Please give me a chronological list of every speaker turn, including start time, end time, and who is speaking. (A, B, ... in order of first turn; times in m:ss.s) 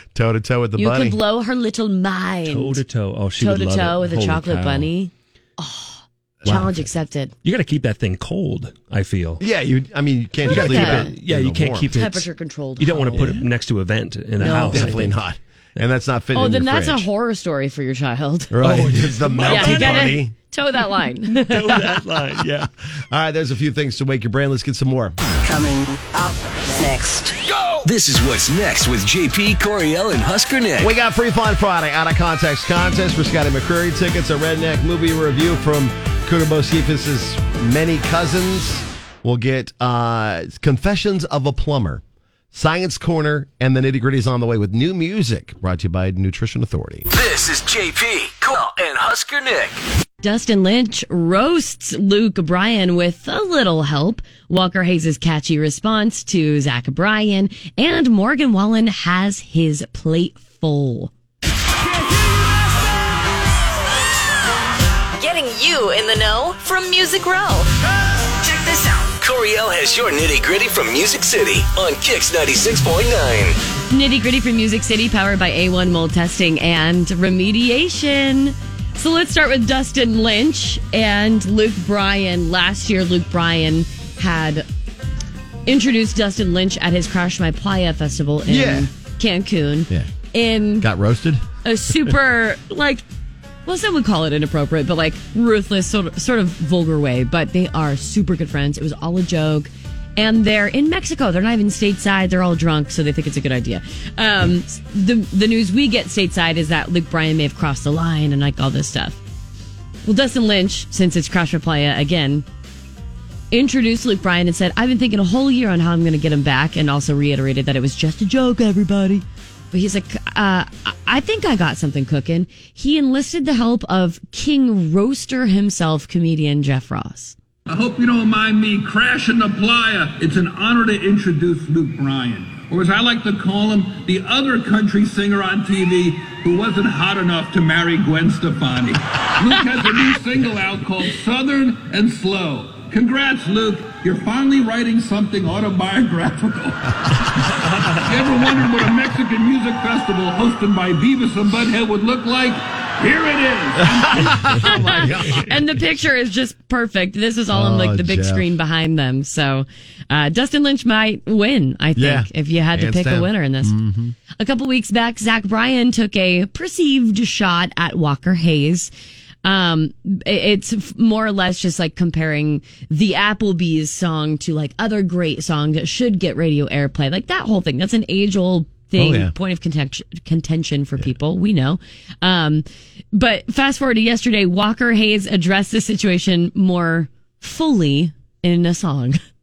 0:00.1-0:01.2 A
0:00.8-0:02.8 B
0:02.5-0:04.9 C
0:03.4-0:07.3 B
0:06.4-0:06.8 C
0:07.4-0:09.4 C
0:09.4-0:11.9 A
0:10.5-0:11.1 B
0:10.5-0:12.3 C
0:11.9-0:13.4 B
0:12.8-0:15.2 C
0:13.1-0:13.4 A
0:14.4-0:15.0 B
0:14.4-0:17.1 A
0:16.3-0:18.6 B
0:18.5-0:20.3 A
0:18.6-0:20.2 C
0:19.4-0:21.8 B
0:21.3-0:22.7 C
0:22.6-0:25.2 A
0:27.8-0:30.9 D
0:30.8-0:47.1 A
0:47.1-0:49.8 D
0:50.2-1:01.1 B
1:05.2-1:07.7 E
1:08.7-1:09.0 E
1:09.1-1:13.6 D
1:13.9-1:24.7 B
1:25.7-1:30.9 B
1:28.5-1:28.9 A
1:30.8-1:31.4 A
1:31.6-1:33.0 B
1:33.7-1:49.2 B
1:50.0-1:52.4 B
1:53.5-2:07.4 B
2:07.7-2:27.2 F
2:28.0-2:34.6 F
2:33.8-2:35.6 A
2:34.5-2:43.8 B
2:37.5-2:38.5 A
2:42.0-2:44.2 A
2:44.3-2:48.9 B
2:49.4-3:09.2 B
2:59.0-2:59.3 A